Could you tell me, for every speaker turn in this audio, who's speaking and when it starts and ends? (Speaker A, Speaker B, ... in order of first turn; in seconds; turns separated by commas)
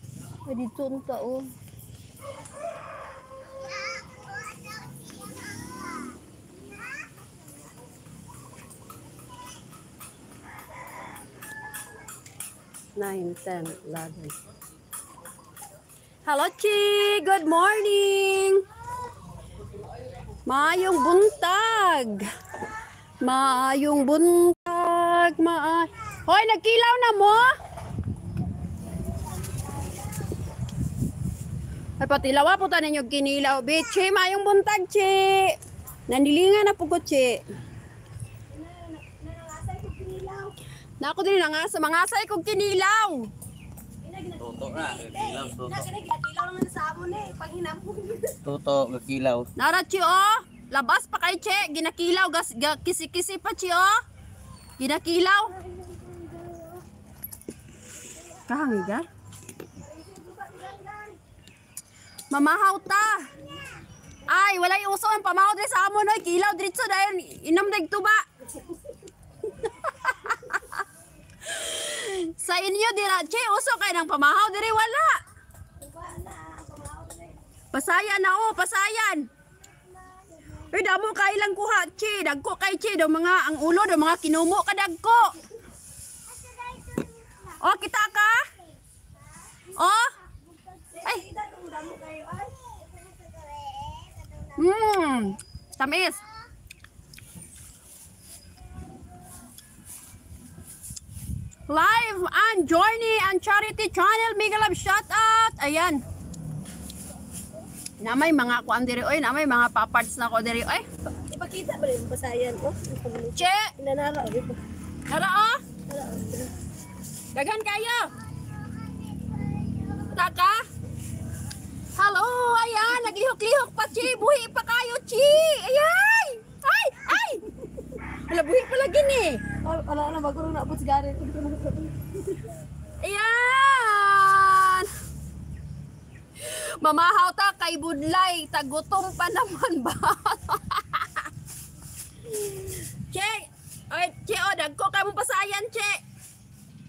Speaker A: 0.4-1.5, Speaker A: 12.9-14.3, Speaker A: 16.2-18.6, Speaker A: 20.4-22.3, Speaker A: 23.2-27.5, Speaker B: 29.4-29.9, Speaker A: 32.0-37.4, Speaker B: 38.5-40.5, Speaker A: 41.0-43.3, Speaker B: 44.0-48.4, Speaker C: 44.4-45.9, Speaker C: 48.4-49.5, Speaker A: 49.5-54.0, Speaker A: 54.8-55.5, Speaker B: 55.7-56.8, Speaker A: 58.4-59.1, Speaker B: 59.8-61.2, Speaker A: 62.3-63.3, Speaker A: 64.3-68.2, Speaker B: 68.5-68.9, Speaker A: 69.7-70.8, Speaker A: 71.4-75.2, Speaker B: 75.8-77.4, Speaker A: 77.7-79.3, Speaker A: 80.6-85.3, Speaker B: 86.5-87.3, Speaker A: 87.6-88.4, Speaker A: 89.7-90.1, Speaker B: 90.7-94.5, Speaker A: 94.5-96.2, Speaker A: 101.7-106.0, Speaker A: 108.0-110.9, Speaker B: 111.1-114.6, Speaker A: 113.3-113.7, Speaker A: 115.1-115.6, Speaker B: 115.9-116.5, Speaker A: 117.3-118.1, Speaker A: 119.9-120.6, Speaker A: 122.0-129.4, Speaker B: 129.6-132.4, Speaker A: 133.0-134.9, Speaker A: 136.4-141.3, Speaker A: 142.3-146.0